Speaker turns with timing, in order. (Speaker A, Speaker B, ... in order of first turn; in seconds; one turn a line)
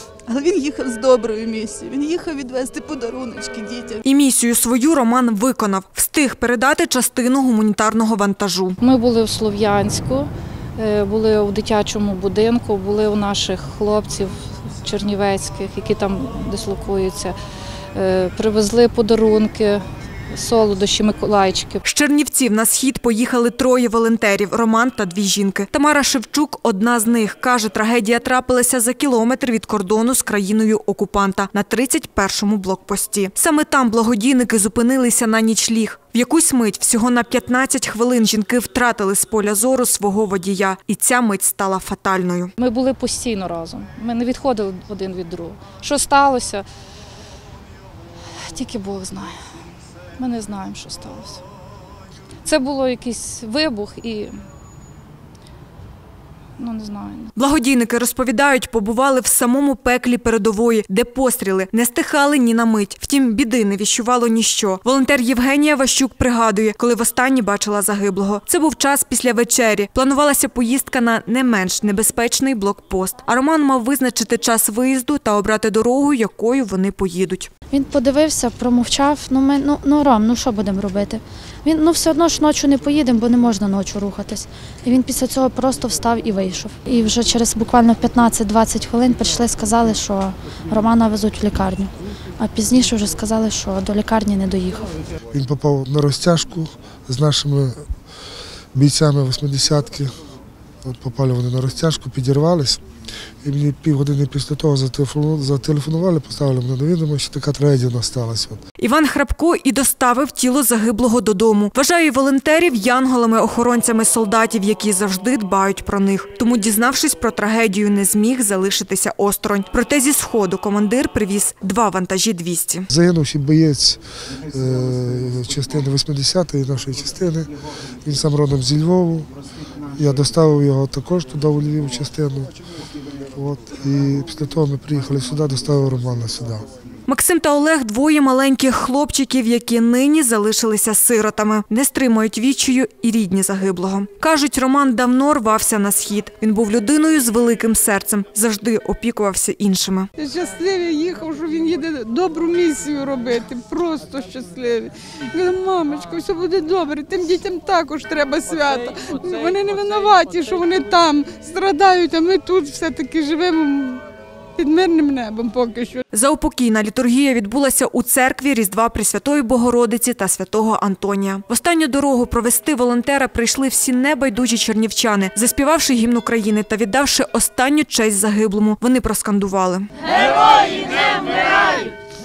Speaker A: 0.3-4.0
Speaker B: 4.0-8.8
Speaker C: 8.8-17.4
Speaker C: 17.9-21.8
Speaker B: 21.8-42.5
Speaker C: 42.6-46.6
Speaker C: 48.5-49.4
Speaker C: 50.2-51.4
Speaker C: 52.5-54.4
Speaker C: 56.6-57.3
Speaker B: 57.4-77.5
Speaker D: 77.7-94.9
Speaker E: 95.3-97.8
Speaker E: 98.7-100.1
Speaker E: 100.8-102.8
Speaker E: 103.4-108.6
Speaker B: 108.8-122.9
Speaker E: 122.9-127.5
Speaker E: 128.1-129.3
Speaker E: 130.0-132.5
Speaker E: 133.3-136.7
Speaker B: 137.1-150.1
Speaker F: 150.2-164.0
Speaker F: 164.6-166.0
Speaker B: 166.1-181.4